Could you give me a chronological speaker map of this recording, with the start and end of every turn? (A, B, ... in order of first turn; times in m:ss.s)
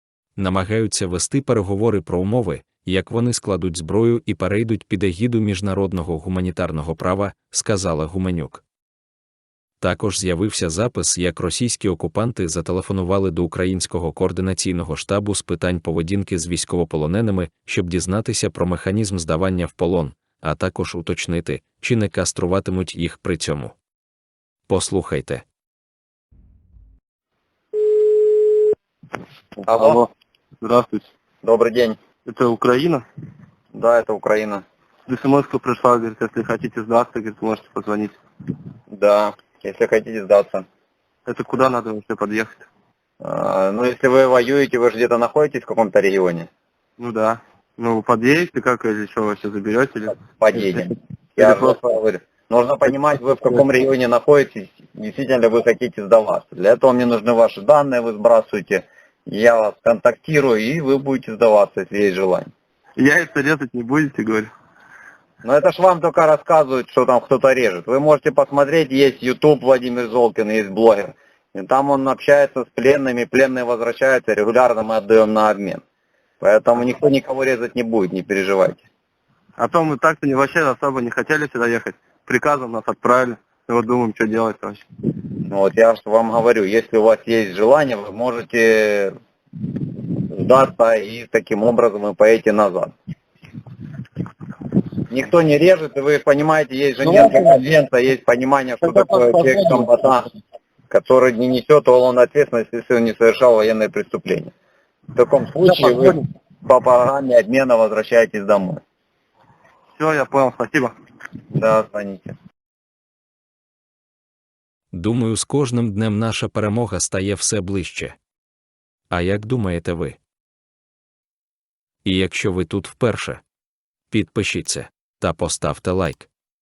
0:00.4-0:08.6 A
0:09.8-0:23.8 A
0:24.7-0:25.4 A
0:29.6-0:30.1 B
0:29.7-0:30.0 C
0:30.6-0:31.0 B
0:31.4-0:32.0 C
0:32.2-0:33.0 B
0:33.7-0:34.6 C
0:35.1-0:38.2 B
0:38.9-0:40.6 C
0:41.3-0:42.6 B
0:43.2-0:46.5 C
0:47.0-0:51.8 B
0:50.4-1:02.5 C
1:03.0-1:04.5 B
1:05.4-1:15.8 C
1:16.4-1:18.8 C
1:19.6-1:24.8 B
1:25.4-1:29.1 C
1:30.2-1:32.9 C
1:35.1-1:40.3 C
1:37.0-1:37.5 B
1:38.8-1:39.9 B
1:40.9-1:44.5 C
1:45.1-1:48.8 C
1:45.6-1:46.2 B
1:50.0-1:50.9 B
1:51.5-1:52.3 C
1:54.9-1:58.2 A
1:59.1-2:00.2 A
2:02.0-2:03.4 A
2:04.1-2:06.3 A